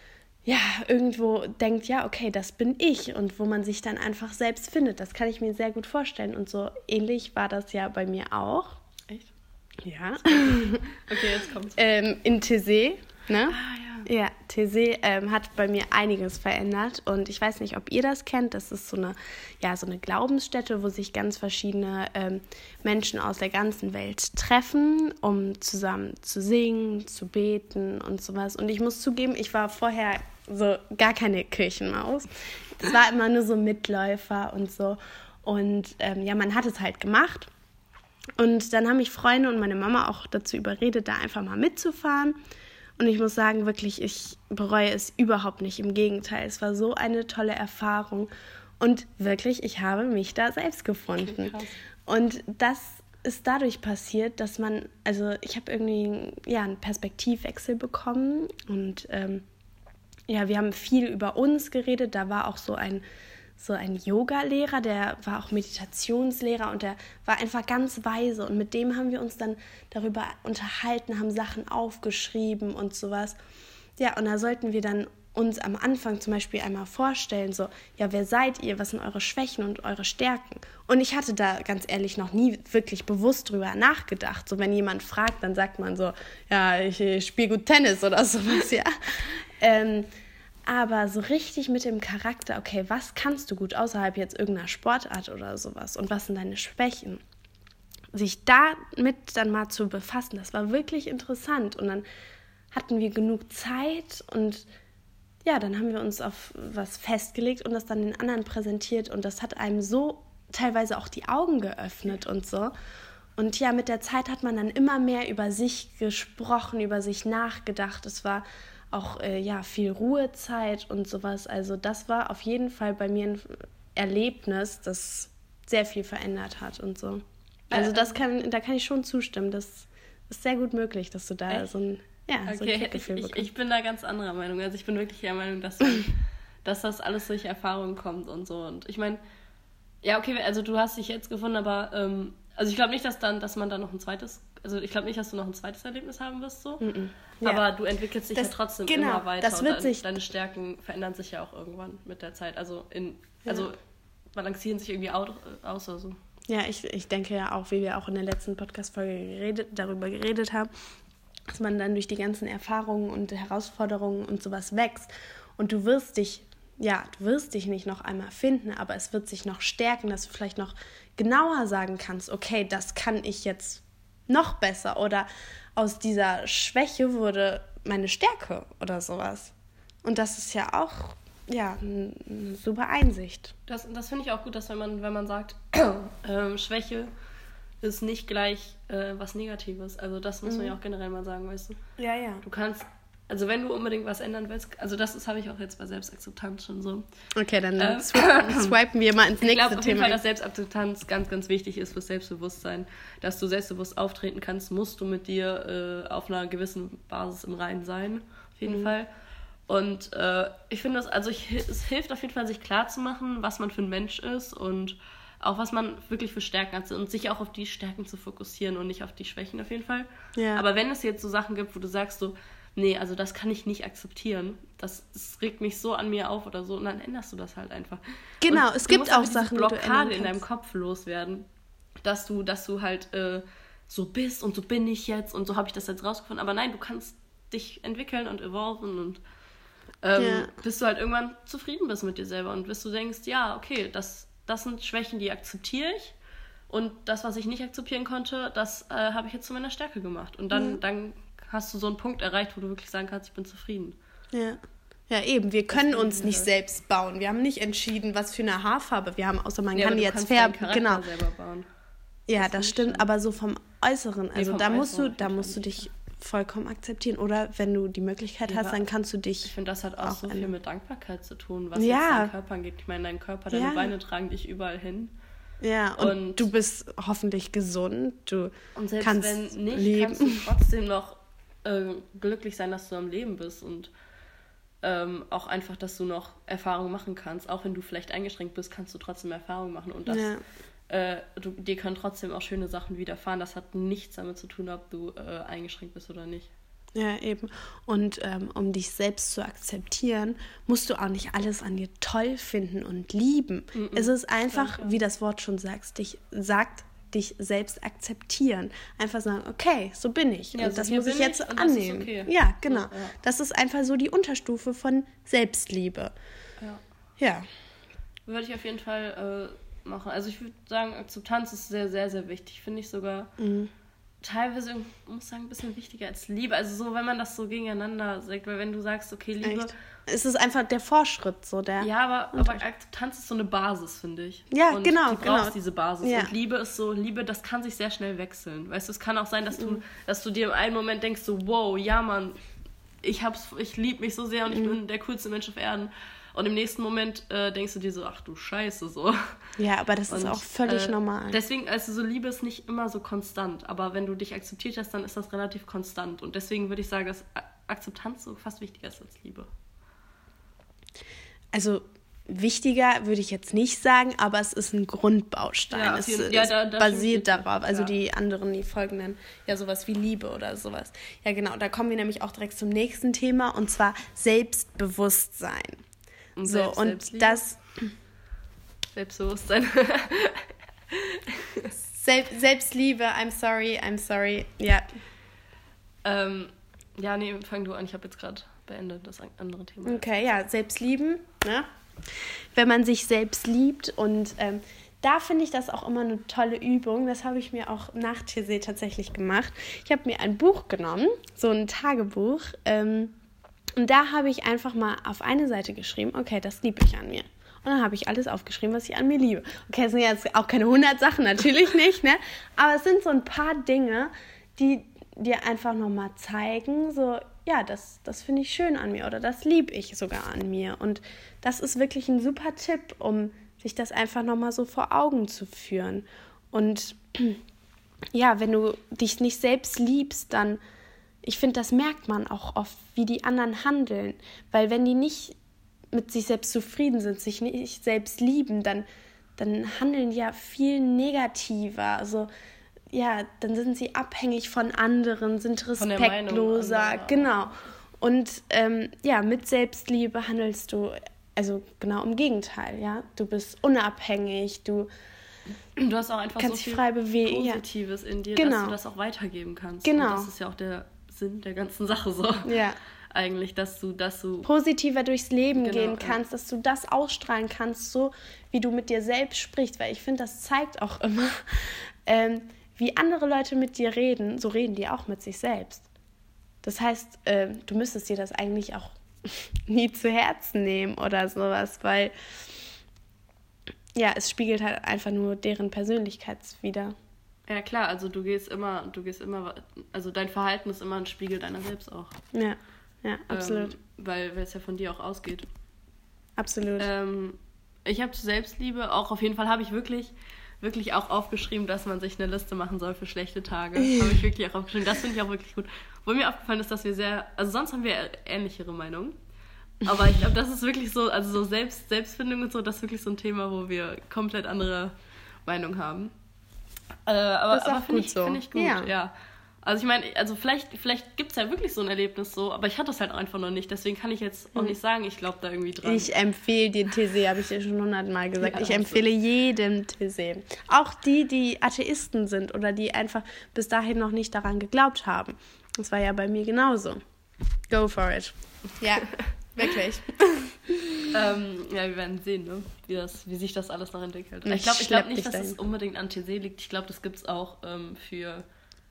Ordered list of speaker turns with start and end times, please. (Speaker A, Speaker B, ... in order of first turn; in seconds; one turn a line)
Speaker A: 0.4-8.8
Speaker A: 9.8-37.5
Speaker B: 10.2-11.8
Speaker B: 13.5-14.1
Speaker A: 38.4-42.4
Speaker A: 43.0-48.3
Speaker A: 48.8-51.5
Speaker B: 51.1-51.8
Speaker A: 52.0-59.4
Speaker A: 60.3-63.0
Speaker A: 63.6-73.4
Speaker A: 74.0-90.1
Speaker A: 90.7-97.2
Speaker A: 98.1-102.0
Speaker A: 102.7-104.7
Speaker A: 105.4-112.7
Speaker A: 113.4-133.5
Speaker B: 127.7-128.2
Speaker B: 132.4-139.2
Speaker B: 140.0-146.9
Speaker A: 146.8-147.6
Speaker B: 147.4-153.8
Speaker A: 148.3-150.0
Speaker B: 154.3-156.2
Speaker A: 156.5-160.7
Speaker A: 161.5-179.5
Speaker A: 180.0-183.5
Speaker B: 183.7-187.1
Speaker B: 187.8-191.8
Speaker A: 190.5-190.7
Speaker A: 192.0-192.4
Speaker B: 192.4-197.0
Speaker A: 197.3-200.2
Speaker B: 197.8-198.7
Speaker B: 199.4-209.1
Speaker B: 209.7-231.5
Speaker A: 220.3-220.6
Speaker A: 228.4-230.4
Speaker B: 232.0-239.2
Speaker B: 240.0-246.1
Speaker A: 240.2-240.5
Speaker B: 246.7-253.9
Speaker A: 250.5-250.8
Speaker A: 254.3-261.0
Speaker B: 255.7-256.5
Speaker B: 259.7-261.6
Speaker A: 262.3-269.5
Speaker B: 262.4-263.1
Speaker B: 264.3-265.8
Speaker B: 268.5-268.8
Speaker B: 269.4-275.1
Speaker A: 270.0-270.5
Speaker A: 271.8-272.3
Speaker A: 273.5-273.9
Speaker A: 275.6-280.5
Speaker B: 276.0-276.5
Speaker B: 278.7-283.9
Speaker B: 284.8-290.3
Speaker A: 290.1-290.4
Speaker B: 290.9-296.5
Speaker A: 296.9-316.1
Speaker B: 303.7-305.0
Speaker B: 310.5-313.1
Speaker A: 317.2-317.4
Speaker B: 318.3-323.3
Speaker A: 323.4-323.7
Speaker B: 324.2-329.7
Speaker A: 329.4-332.6
Speaker B: 331.8-342.4
Speaker A: 334.5-336.3
Speaker A: 339.5-339.8
Speaker B: 343.0-349.4
Speaker A: 344.5-344.7
Speaker A: 349.6-351.4
Speaker B: 350.1-359.5
Speaker A: 361.5-375.8
Speaker B: 365.7-367.9
Speaker B: 376.4-377.4
Speaker A: 376.4-377.9
Speaker B: 378.9-381.7
Speaker A: 381.9-384.9
Speaker B: 386.0-390.1
Speaker A: 389.8-403.1
Speaker A: 403.8-427.4
Speaker A: 428.1-430.6
Speaker A: 431.2-435.4
Speaker A: 435.9-438.9
Speaker A: 439.4-442.3
Speaker A: 442.9-454.9
Speaker B: 445.8-447.3
Speaker B: 455.8-464.5
Speaker A: 456.4-457.6
Speaker A: 458.4-458.8
Speaker A: 459.8-460.3
Speaker A: 462.4-462.8
Speaker A: 464.4-475.9
Speaker B: 465.6-466.2
Speaker A: 476.6-482.1
Speaker A: 483.9-486.9
Speaker B: 487.5-492.1
Speaker A: 492.3-493.7
Speaker B: 493.3-495.5
Speaker A: 496.4-496.9
Speaker B: 496.8-509.1
Speaker B: 509.8-514.9
Speaker B: 515.4-516.1
Speaker B: 517.1-526.1
Speaker A: 517.5-518.9
Speaker A: 525.8-537.0
Speaker B: 528.4-529.0
Speaker A: 537.7-541.1
Speaker B: 541.1-548.4
Speaker A: 544.4-545.6